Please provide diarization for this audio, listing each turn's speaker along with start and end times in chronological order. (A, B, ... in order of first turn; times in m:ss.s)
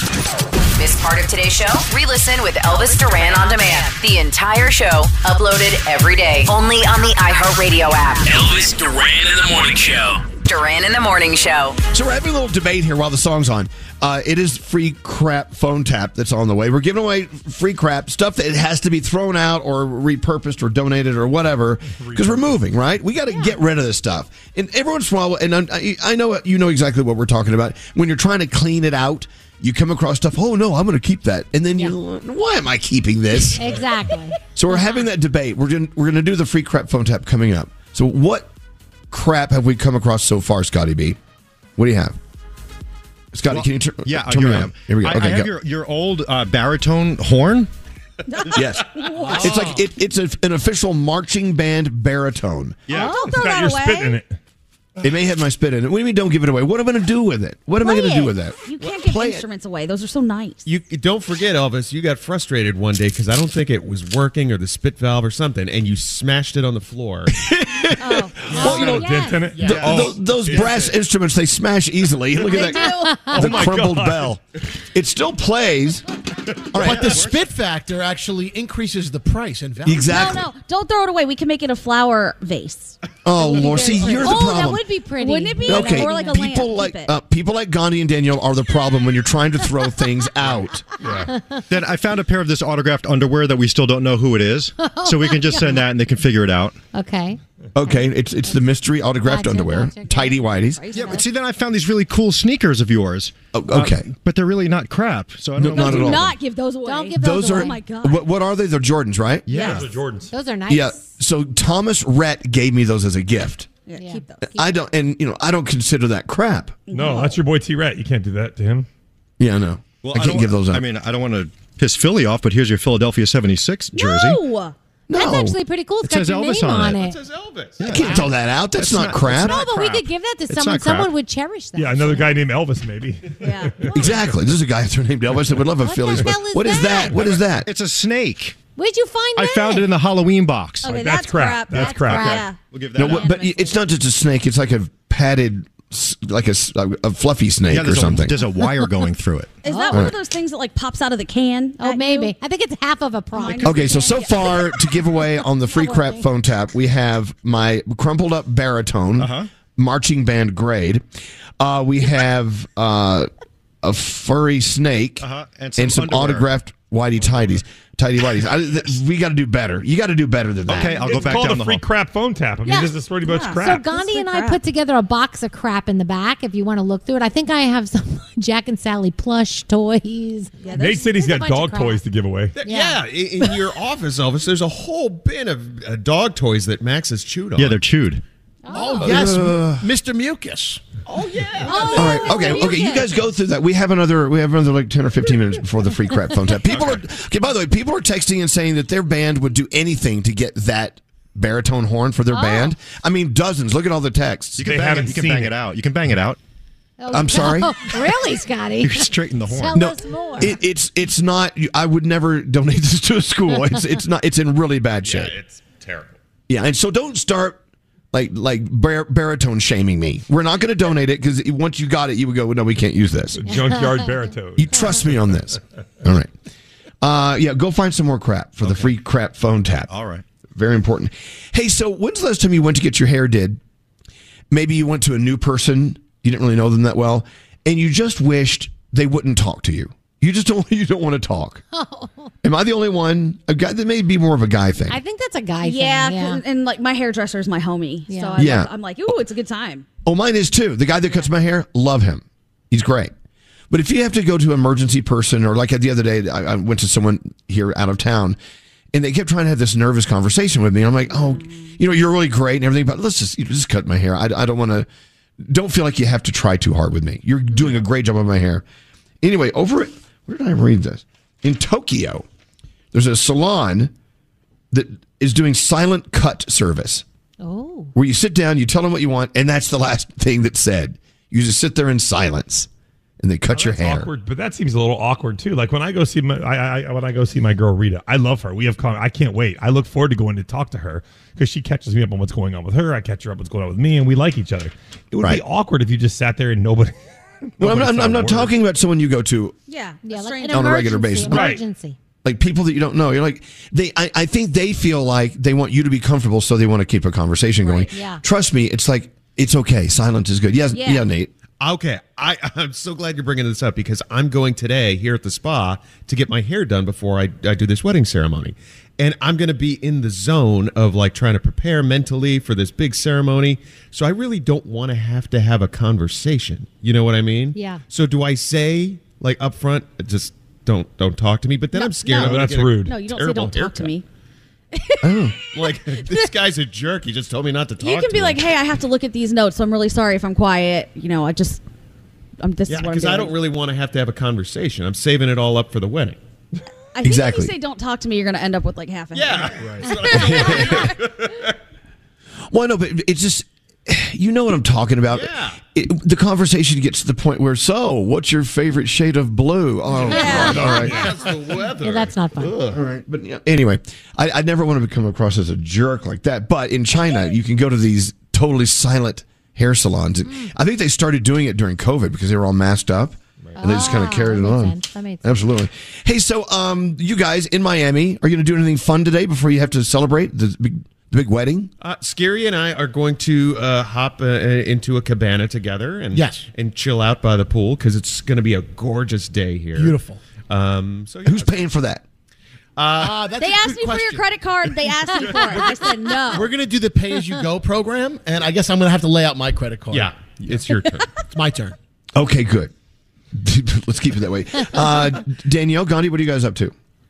0:00.8-0:08.4 A
0:08.2-0:10.2 B
0:10.4-0:11.8 A
0:11.9-0:33.6 C
0:21.9-0:22.6 D
0:33.6-0:34.4 E
0:34.6-0:38.5 C
0:39.1-0:41.2 C
0:41.8-0:42.2 C
0:43.3-0:45.5 C
0:43.5-0:47.7 F
0:48.3-0:49.7 G
0:48.5-0:52.8 C
0:52.9-0:53.2 F
0:52.9-0:54.2 G
0:53.0-0:54.3 D
0:55.0-0:59.4 C
0:57.8-1:00.6 G
1:00.6-1:07.4 H
1:07.5-1:08.2 C
1:08.0-1:08.7 G
1:08.5-1:08.9 I
1:08.5-1:09.6 E
1:08.5-1:10.8 D
1:09.5-1:10.0 I
1:09.6-1:14.4 C
1:09.8-1:10.8 F
1:12.4-1:13.5 G
1:12.5-1:13.6 E
1:13.3-1:14.3 D
1:14.9-1:16.0 C
1:16.7-1:17.3 C
1:16.7-1:17.4 F
1:16.8-1:20.2 I
1:19.8-1:20.4 C
1:20.0-1:27.1 G
1:23.2-1:24.8 C
1:23.5-1:26.4 E
1:25.6-1:30.8 C
1:31.0-1:31.3 D
1:31.3-1:31.6 E
1:31.7-1:36.8 F
1:34.8-1:35.8 E
1:36.9-1:38.6 E
1:37.7-1:40.9 C
1:39.2-1:40.4 E
1:40.8-1:41.3 G
1:40.9-1:46.4 F
1:43.5-1:44.1 C
1:45.6-1:46.3 C
1:45.7-1:48.3 G
1:46.8-1:47.8 E
1:47.2-1:49.5 C
1:49.5-1:49.9 F
1:49.5-1:49.8 G
1:49.6-1:50.3 D
1:50.3-1:51.0 E
1:50.7-1:53.7 C
1:53.9-1:54.4 G
1:54.0-1:54.7 E
1:54.4-1:56.8 C
1:56.9-1:57.4 G
1:56.9-1:58.8 D
1:59.4-2:00.8 C
2:00.0-2:04.4 F
2:03.9-2:04.7 G
2:05.1-2:05.6 C
2:05.1-2:07.2 E
2:06.0-2:07.0 F
2:06.9-2:08.0 H
2:07.8-2:11.1 F
2:07.8-2:09.6 C
2:09.3-2:12.4 E
2:11.8-2:13.9 D
2:13.4-2:13.9 G
2:13.9-2:17.7 C
2:15.8-2:17.2 E
2:16.8-2:18.6 F
2:18.8-2:19.8 E
2:19.4-2:21.0 F
2:20.8-2:23.8 G
2:20.9-2:22.5 D
2:21.7-2:23.5 F
2:21.8-2:22.4 E
2:22.9-2:28.4 C
2:27.7-2:29.6 F
2:29.6-2:32.3 G
2:29.6-2:30.1 E
2:31.8-2:34.5 E
2:33.3-2:34.7 G
2:33.6-2:41.0 C
2:35.6-2:36.2 E
2:39.2-2:39.5 F
2:41.6-2:43.3 C
2:43.8-2:45.2 C
2:45.2-2:46.6 F
2:45.8-2:51.5 C
2:47.2-2:47.6 F
2:50.6-2:51.8 F
2:50.8-2:53.9 D
2:52.6-2:52.9 E
2:53.2-2:54.6 G
2:53.5-3:02.0 E
3:00.6-3:01.0 G
3:00.7-3:02.6 D
3:02.6-3:07.8 H
3:02.6-3:03.0 E
3:07.6-3:08.2 F
3:08.6-3:09.1 E
3:08.7-3:10.8 I
3:09.0-3:09.9 C
3:11.1-3:12.0 H
3:11.6-3:13.1 E
3:11.7-3:12.8 G
3:11.9-3:24.7 C
3:16.7-3:17.0 F
3:22.3-3:22.7 E
3:24.6-3:26.4 F
3:24.6-3:25.5 D
3:27.0-3:30.6 E
3:27.1-3:27.8 C
3:28.8-3:29.9 F
3:29.7-3:35.3 C
3:35.0-3:36.2 H
3:36.5-3:37.6 C
3:38.1-3:43.5 C
3:43.4-3:44.8 D
3:43.5-3:44.0 E
3:44.6-3:46.3 C
3:47.0-3:49.9 C
3:48.6-3:49.0 F
3:49.9-3:50.2 F
3:50.5-3:53.6 C
3:54.5-4:01.6 C
4:01.7-4:02.3 E
4:02.4-4:05.0 C
4:04.9-4:06.4 E
4:05.6-4:09.8 G
4:08.1-4:08.5 E
4:08.4-4:08.7 C
4:10.0-4:13.1 C
4:13.7-4:18.4 C
4:18.9-4:24.9 C
4:21.1-4:21.7 G
4:25.4-4:28.6 C
4:29.2-4:32.2 C
4:32.9-4:33.9 C
4:34.7-4:37.0 C
4:37.4-4:37.9 E
4:37.9-4:42.7 C
4:43.2-4:44.1 C
4:43.5-4:56.9 D
4:57.6-4:58.5 D
4:57.6-4:59.5 C
4:59.7-5:00.9 G
5:00.0-5:02.0 E
5:00.5-5:01.6 C
5:01.3-5:01.6 D
5:02.2-5:11.3 C
5:07.6-5:07.9 G
5:07.9-5:08.2 E
5:10.7-5:11.0 G
5:11.6-5:33.9 H
5:27.5-5:27.8 E
5:31.7-5:34.0 G
5:32.1-5:33.0 D
5:34.7-5:35.3 G
5:35.0-5:35.4 C
5:35.5-5:38.5 H
5:37.8-5:41.6 G
5:42.4-5:43.3 G
5:42.7-5:46.2 H
5:46.9-5:50.6 G
5:47.0-5:47.5 C
5:49.1-5:51.5 H
5:50.1-5:50.9 C
5:52.5-6:01.1 C
5:55.1-5:55.6 H
5:59.9-6:02.8 H
6:00.1-6:00.8 G
6:00.1-6:01.1 E
6:01.8-6:02.5 E
6:02.7-6:21.7 C
6:10.2-6:10.5 E
6:13.6-6:15.3 E
6:21.8-6:31.6 H
6:26.1-6:26.4 I
6:29.7-6:30.2 I
6:31.2-6:32.0 C
6:32.8-6:33.2 H
6:32.9-6:34.2 I
6:33.4-6:36.5 G
6:36.3-6:40.1 I
6:39.9-6:41.1 H
6:41.3-6:41.7 I
6:42.1-6:42.7 C
6:43.3-6:46.7 C